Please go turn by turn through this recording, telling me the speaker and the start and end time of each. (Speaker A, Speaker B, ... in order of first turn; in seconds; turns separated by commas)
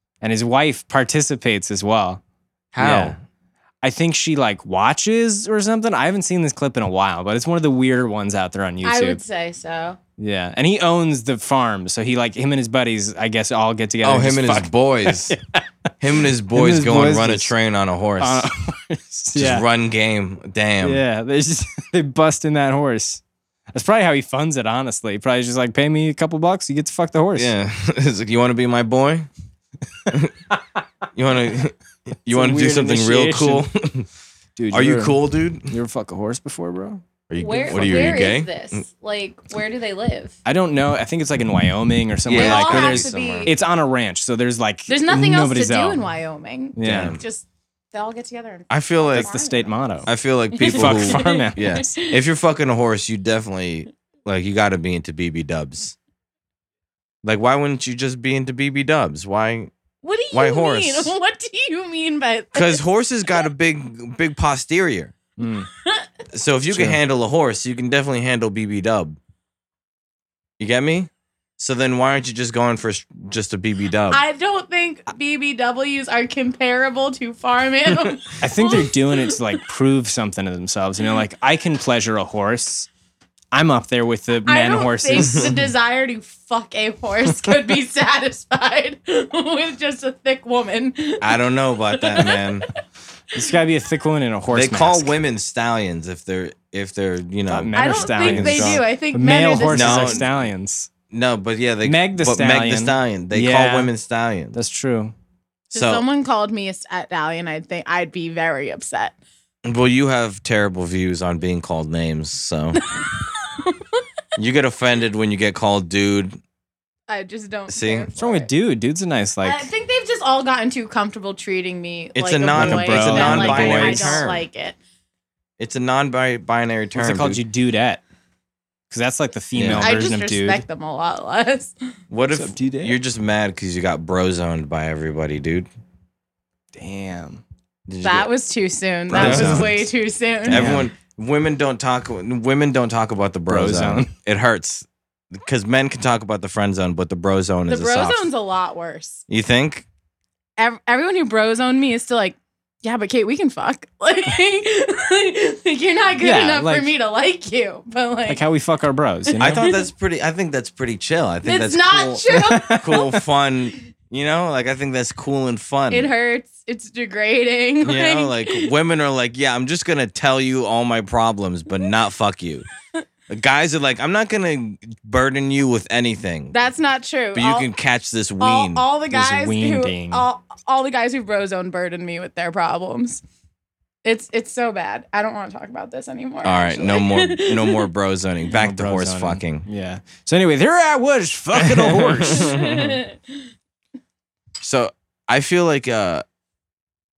Speaker A: 0.2-2.2, Speaker B: 2.7-3.2, Speaker A: 2.8-3.2, Speaker A: 3.8-9.2, Speaker C: 8.8-10.0, Speaker A: 10.2-15.7, Speaker B: 14.0-15.4, Speaker B: 16.0-18.5, Speaker A: 16.4-17.5, Speaker A: 18.2-19.7, Speaker B: 19.3-21.0, Speaker A: 20.8-23.2, Speaker A: 23.7-27.5, Speaker B: 27.4-29.3, Speaker B: 31.1-34.1, Speaker A: 32.3-33.7, Speaker A: 34.6-37.0, Speaker B: 34.7-35.7, Speaker B: 37.3-38.8, Speaker C: 37.4-40.4, Speaker A: 40.5-46.0, Speaker B: 42.3-43.5, Speaker C: 42.3-43.5, Speaker C: 44.9-49.8, Speaker A: 46.8-47.2, Speaker B: 46.8-47.2, Speaker B: 48.7-49.3, Speaker A: 49.1-50.1, Speaker B: 50.1-56.0, Speaker C: 50.5-52.2, Speaker A: 50.6-51.9, Speaker B: 57.2-59.7, Speaker C: 60.0-62.8, Speaker B: 60.3-61.1, Speaker B: 62.5-65.1, Speaker A: 65.4-65.7, Speaker C: 65.7-66.1, Speaker B: 66.3-69.2, Speaker A: 66.7-67.0, Speaker B: 70.6-74.2, Speaker C: 74.1-79.5, Speaker A: 78.4-82.9, Speaker A: 83.5-85.7, Speaker C: 84.5-92.7, Speaker B: 85.2-85.5, Speaker B: 91.2-92.7, Speaker A: 93.3-95.2, Speaker B: 94.5-98.8, Speaker A: 97.5-100.9, Speaker C: 97.7-100.3, Speaker B: 99.7-100.4, Speaker B: 101.1-104.5, Speaker A: 101.8-103.9, Speaker A: 104.5-105.1, Speaker B: 105.7-106.0, Speaker C: 105.7-109.2, Speaker B: 109.7-112.8, Speaker C: 112.8-114.0, Speaker B: 114.4-116.4, Speaker C: 117.1-118.5, Speaker B: 117.7-118.1, Speaker A: 118.2-119.7, Speaker C: 119.4-124.8, Speaker B: 122.2-124.5, Speaker A: 122.5-124.3, Speaker B: 125.6-127.4, Speaker A: 127.0-128.0, Speaker A: 128.9-130.6, Speaker B: 129.6-130.0, Speaker C: 129.8-131.8, Speaker B: 132.1-135.7, Speaker A: 132.3-133.0, Speaker A: 136.8-137.4, Speaker B: 137.9-138.3, Speaker C: 138.0-140.8, Speaker B: 139.1-139.9, Speaker A: 139.1-139.8, Speaker B: 140.5-148.3, Speaker A: 140.5-140.9, Speaker A: 143.5-144.1, Speaker C: 147.7-149.2, Speaker B: 149.3-149.9, Speaker C: 150.6-158.4, Speaker A: 156.2-156.9, Speaker A: 158.3-159.7, Speaker C: 159.3-159.9, Speaker B: 159.4-166.1, Speaker C: 161.4-163.2, Speaker A: 162.3-163.0, Speaker C: 165.9-168.7, Speaker B: 167.8-172.7, Speaker B: 173.3-176.6, Speaker C: 176.5-177.7, Speaker B: 177.3-178.8, Speaker C: 178.4-183.2, Speaker A: 179.1-180.3, Speaker C: 184.0-187.9, Speaker B: 186.4-189.7, Speaker A: 188.6-192.7, Speaker B: 191.6-193.0, Speaker C: 192.3-193.4, Speaker B: 194.6-196.2